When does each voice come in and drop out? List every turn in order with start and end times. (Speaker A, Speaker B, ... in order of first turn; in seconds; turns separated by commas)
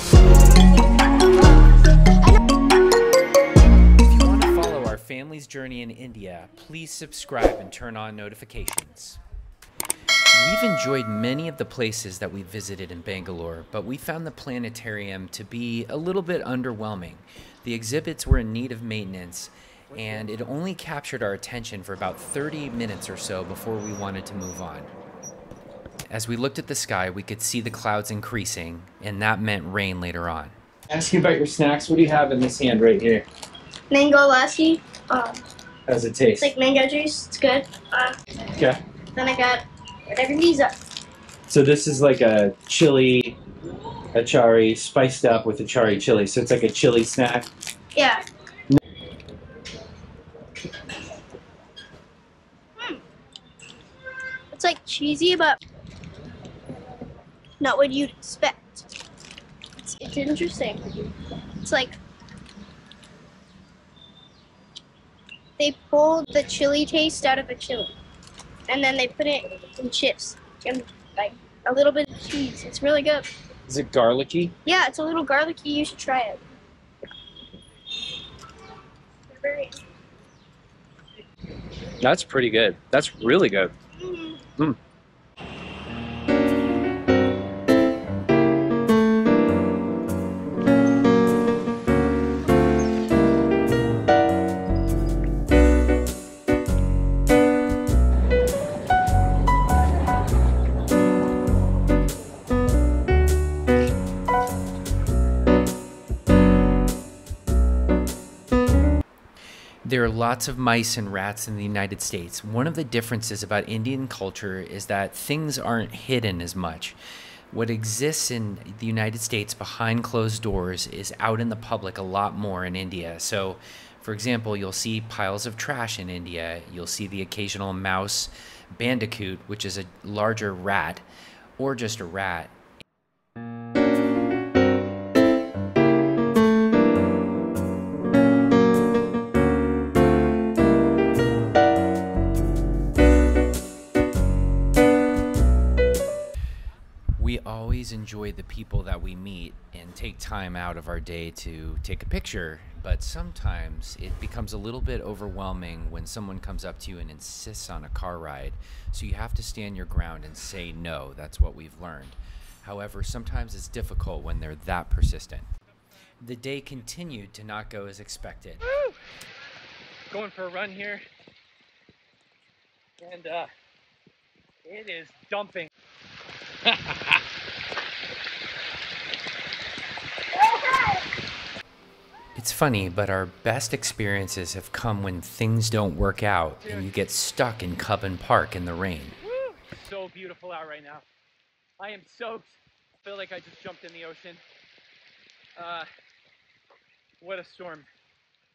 Speaker A: 4.0-9.2, Speaker A: 10.3-24.9, Speaker B: 19.9-20.2, Speaker A: 26.1-30.6, Speaker C: 30.9-33.3, Speaker D: 33.9-35.4, Speaker C: 35.9-36.3, Speaker D: 36.4-40.7, Speaker C: 41.5-43.4, Speaker C: 44.1-47.5, Speaker D: 47.9-48.2, Speaker D: 52.8-53.0, Speaker D: 54.5-55.6, Speaker D: 57.6-58.9, Speaker D: 59.8-62.0, Speaker D: 65.6-67.9, Speaker D: 68.7-73.3, Speaker C: 73.7-74.5, Speaker D: 74.7-76.4, Speaker D: 79.3-79.8, Speaker C: 82.0-83.7, Speaker D: 84.0-84.5, Speaker A: 109.8-117.0, Speaker A: 117.5-131.0, Speaker A: 131.6-132.6, Speaker A: 147.2-165.5, Speaker A: 166.2-168.6, Speaker B: 170.1-171.0, Speaker B: 173.0-173.5, Speaker B: 174.6-175.7, Speaker B: 176.6-177.2, Speaker A: 182.3-189.2, Speaker B: 186.6-186.9, Speaker B: 189.5-191.0, Speaker B: 191.8-194.4, Speaker B: 195.6-195.9, Speaker B: 197.2-197.9